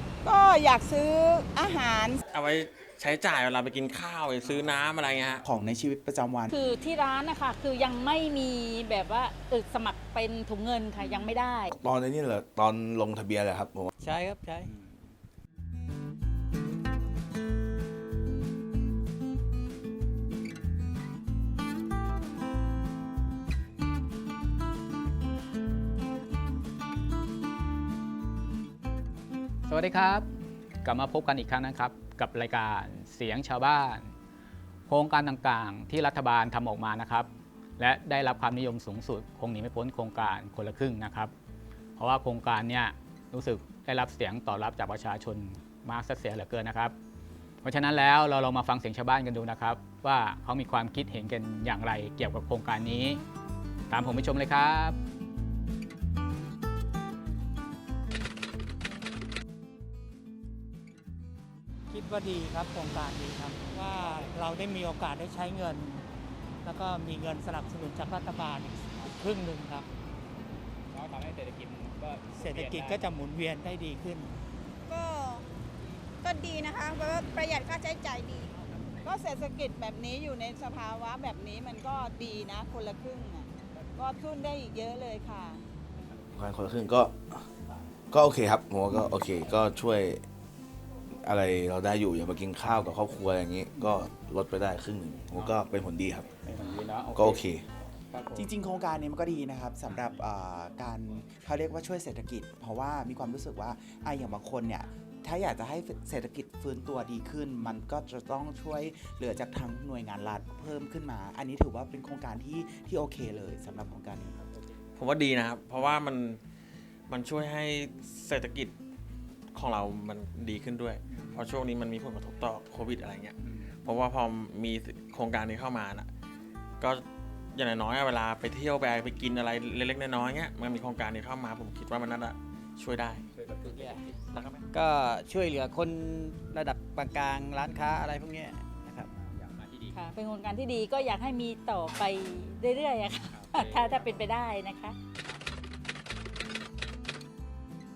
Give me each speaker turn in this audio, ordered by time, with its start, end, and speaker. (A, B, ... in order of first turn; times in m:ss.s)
0:00.2-0:02.2 A
0:02.3-0:05.4 B
0:05.4-0:06.6 C
0:06.5-0:11.7 D
0:11.8-0:13.9 E
0:14.0-0:14.7 F
0:29.7-0:30.3 G
0:30.8-0:34.1 G
0:34.9-0:41.3 G
0:42.0-0:47.0 G
0:47.6-0:53.2 G
0:53.9-0:55.0 G
1:01.9-1:06.1 H
1:06.6-1:09.9 H
1:10.9-1:12.9 G
1:12.3-1:14.3 H
1:14.9-1:15.4 I
1:16.2-1:18.5 I
1:19.0-1:25.6 A
1:26.4-1:27.5 E
1:28.1-1:30.2 E
1:31.2-1:36.3 E
1:37.1-1:37.6 E
1:38.3-1:54.4 C
1:55.0-1:56.4 B
1:57.1-1:58.8 B
1:59.5-2:06.1 B
2:06.8-2:13.2 B
2:13.8-2:14.0 F
2:14.3-2:14.6 B
2:14.7-2:19.1 F
2:19.8-2:25.0 D